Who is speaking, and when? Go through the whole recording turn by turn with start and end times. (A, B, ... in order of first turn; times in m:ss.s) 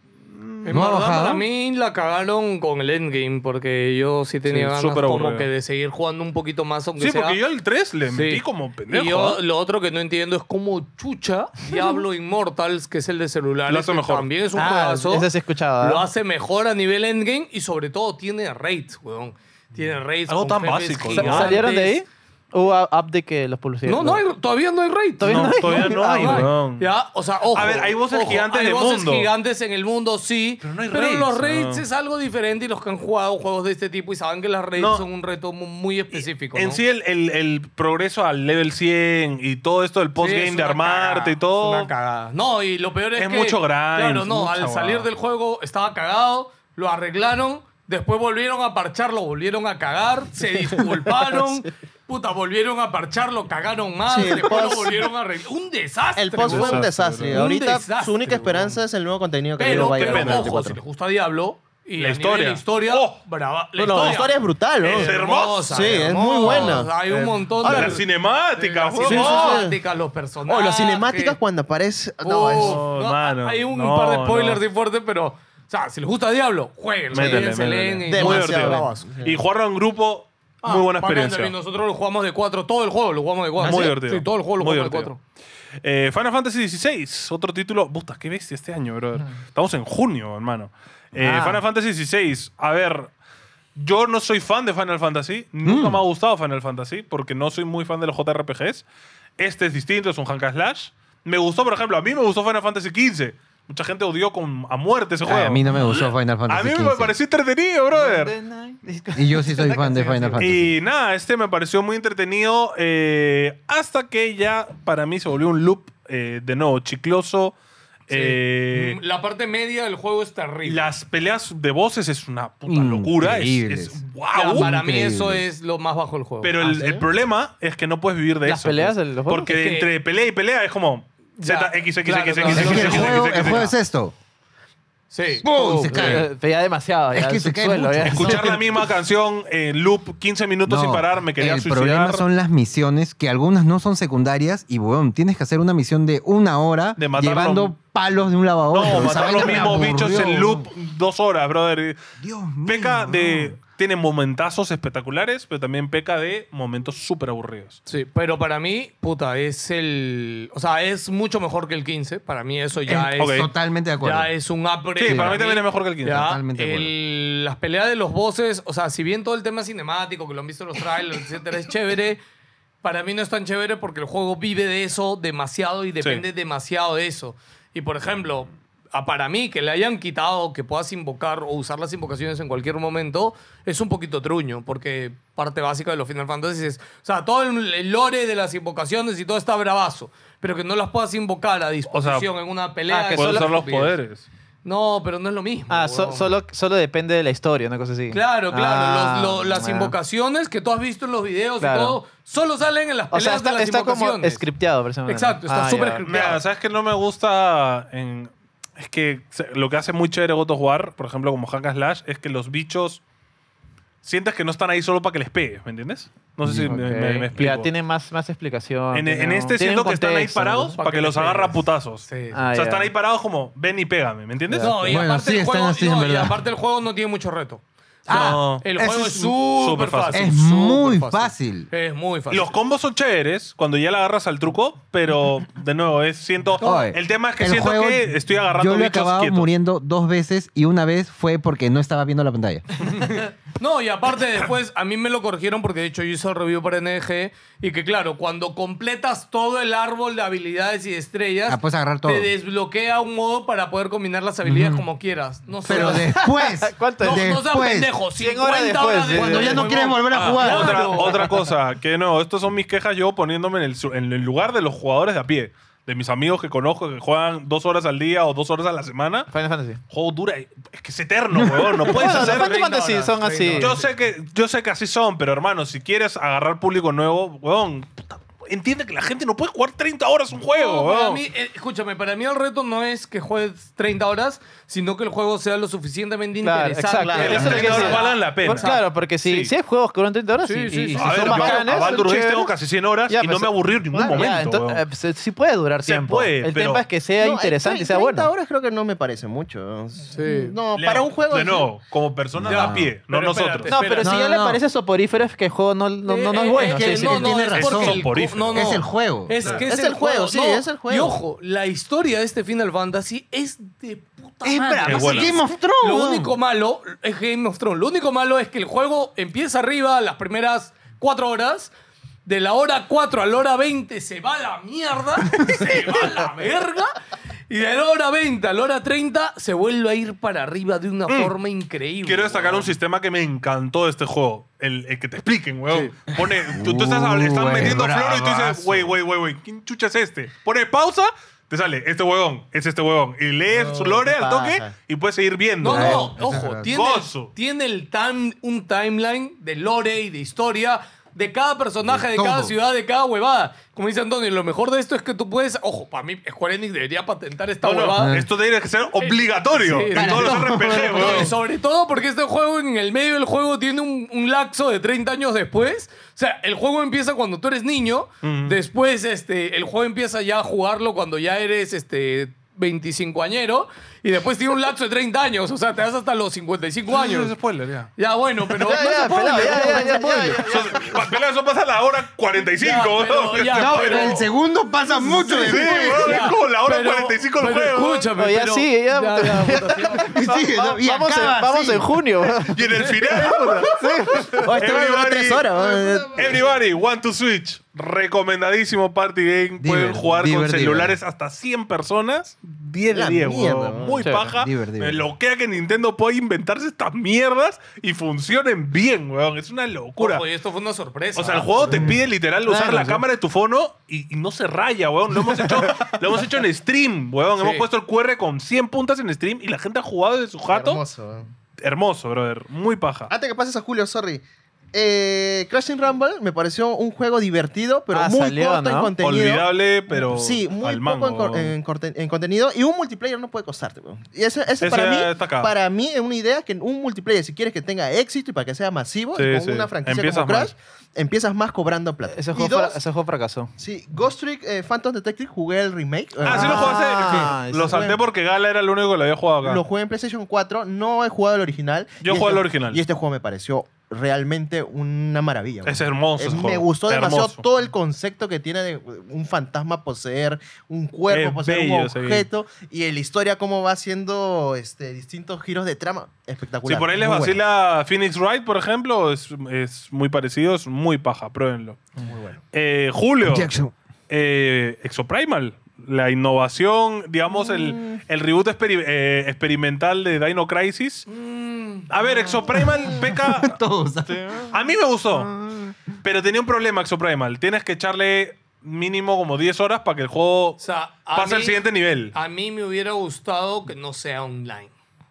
0:00.3-0:00.9 A
0:00.6-0:07.4 B
0:00.7-0:01.4 C
0:04.4-0:05.5 A
0:07.0-0:09.4 A
0:08.1-0:22.0 B
0:13.7-0:14.3 A
0:14.5-0:16.1 D
0:20.2-0:21.6 A
0:21.1-0:24.2 D
0:23.8-0:36.8 B
0:25.2-0:26.5 D
0:25.2-0:26.9 A
0:27.5-0:29.3 A
0:30.6-0:31.8 A
0:34.8-0:35.0 A
0:36.1-0:41.9 A
0:40.2-0:58.8 B
0:43.2-0:45.1 A
0:54.1-0:55.1 E
0:56.2-1:00.8 E
0:56.4-0:57.4 A
0:59.6-1:08.0 B
0:59.6-1:00.5 A
1:02.0-1:03.2 A
1:03.8-1:05.2 E
1:03.9-1:04.2 A
1:04.8-1:09.7 A
1:05.7-1:07.0 E
1:07.6-1:08.0 E
1:08.6-1:11.4 B
1:09.0-1:09.8 E
1:10.4-1:12.8 E
1:12.2-1:19.0 B
1:12.5-1:14.6 A
1:17.1-1:21.5 A
1:18.1-1:19.4 E
1:20.6-1:25.2 B
1:23.6-1:25.1 A
1:23.6-1:23.9 E
1:25.8-1:33.1 A
1:31.2-1:31.6 D
1:33.8-1:38.8 A
1:35.6-1:36.0 C
1:39.4-1:48.3 A
1:45.2-1:47.1 C
1:47.9-1:50.4 D
1:49.1-1:50.7 C
1:50.4-1:57.5 A
1:58.1-1:59.0 A
1:58.1-2:00.9 B
2:00.6-2:04.7 A
2:02.7-2:04.0 C
2:04.3-2:07.0 B
2:04.5-2:05.4 C
2:06.4-2:13.7 A
2:08.4-2:09.5 D
2:09.5-2:09.9 B
2:11.4-2:13.4 B
2:12.4-2:14.1 C
2:15.1-2:16.2 B
2:15.4-2:16.3 C
2:15.8-2:18.5 D
2:17.1-2:18.6 C
2:18.1-2:22.2 A
2:20.6-2:30.7 C
2:27.0-2:27.7 A
2:28.7-2:32.0 A
2:29.0-2:29.7 B
2:32.2-2:33.6 C
2:32.6-2:37.8 A
2:37.9-2:43.5 B
2:42.8-2:44.3 C
2:43.2-2:43.5 A
2:44.0-2:52.2 B
2:45.0-2:46.3 A
2:46.1-2:46.9 C
2:52.8-3:14.0 B
3:11.9-3:12.3 A
3:12.9-3:13.6 D
3:13.1-3:14.2 A
3:14.6-3:16.3 B
3:15.7-3:20.0 D
3:18.1-3:24.4 B
3:21.6-3:22.0 D
3:23.1-3:26.0 D
3:25.0-3:26.4 B
3:26.0-3:33.0 A
3:34.0-3:37.7 A
3:36.4-3:36.8 C
3:36.6-3:40.8 D
3:38.9-3:44.9 A
3:40.8-3:42.4 B
3:42.3-3:42.9 D
3:44.5-3:44.8 D
3:44.6-3:52.6 B
3:44.8-3:46.4 C
3:48.1-3:49.4 C
3:48.1-3:48.7 A
3:49.5-3:50.4 A
3:50.1-3:51.7 C
3:52.3-3:59.5 A
3:56.6-3:56.9 B
3:56.6-4:02.6 C
4:03.6-4:16.4 B
4:11.5-4:12.3 C
4:14.4-4:14.8 C
4:15.6-4:17.9 C
4:15.7-4:17.4 D
4:17.0-4:21.3 B
4:18.2-4:19.7 D
4:19.1-4:21.2 C
4:20.3-4:29.3 A
4:29.3-4:29.8 D
4:29.9-4:32.5 A
4:31.4-4:33.8 D
4:31.9-4:33.9 B
4:33.6-4:41.2 A
4:40.5-4:48.8 B
4:46.4-4:52.5 D
4:47.0-4:47.9 E
4:47.2-4:49.5 A
4:50.4-4:52.1 B
4:50.9-4:54.8 A
4:53.1-4:58.3 D
4:53.9-4:54.2 E
4:55.8-4:56.8 A
4:57.2-5:01.7 E
5:00.1-5:00.6 B
5:00.7-5:03.8 A
5:02.4-5:02.9 C
5:02.4-5:04.2 B
5:03.7-5:07.4 D
5:04.0-5:04.6 C
5:06.0-5:21.7 B
5:06.6-5:09.4 C
5:07.5-5:08.8 A
5:09.4-5:09.6 A
5:09.4-5:11.2 E
5:14.4-5:16.3 C
5:14.8-5:15.4 A
5:22.2-5:26.9 B
5:27.5-5:32.7 B
5:31.1-5:31.3 A
5:32.0-5:46.1 A
5:36.2-5:39.0 C
5:43.5-5:44.7 E
5:45.6-5:58.2 B
5:45.7-5:46.7 C
5:46.7-5:47.3 A
5:51.9-5:52.5 C
5:57.6-6:01.3 A
5:58.0-5:58.3 C
5:59.0-6:17.3 B
5:59.9-6:01.3 C
6:08.2-6:08.6 A
6:16.9-6:17.9 A
6:18.0-6:20.1 B
6:18.6-6:20.9 D
6:19.5-6:20.5 E
6:20.4-6:24.2 A
6:22.5-6:24.3 B
6:23.5-6:26.2 C
6:24.8-6:30.2 B
6:25.2-6:28.1 A
6:28.2-6:34.4 D
6:29.9-6:31.9 C
6:32.5-6:50.2 A
6:32.8-6:33.9 B
6:34.3-6:36.4 E
6:39.6-6:41.0 C
6:42.9-6:44.0 E
6:44.0-6:44.3 D
6:44.3-6:45.0 C
6:50.0-6:52.0 B
6:51.1-7:00.8 A
6:52.4-6:53.0 D
6:57.4-6:57.6 B
7:00.5-7:01.3 E
7:01.6-7:03.1 A
7:03.1-7:22.8 E
7:07.9-7:08.9 D
7:09.0-7:11.5 A
7:14.6-7:15.5 A
7:19.2-7:20.5 A
7:22.1-7:23.5 D
7:23.6-7:28.0 E
7:26.2-7:29.6 A
7:26.2-7:27.9 D
7:29.4-7:47.4 E
7:32.0-7:32.8 A
7:35.6-7:37.4 A
7:41.1-7:42.3 A
7:46.6-7:51.8 A
7:52.0-7:52.4 E
7:52.5-7:53.5 A
7:53.2-7:53.7 C
7:54.1-8:01.1 A
7:57.4-7:58.0 E
8:01.1-8:02.0 B
8:01.9-8:03.6 A
8:02.7-8:04.5 C
8:04.1-8:04.4 D
8:04.5-8:05.3 A
8:05.1-8:05.8 C
8:06.0-8:10.6 A
8:10.6-8:14.7 B
8:11.1-8:12.1 A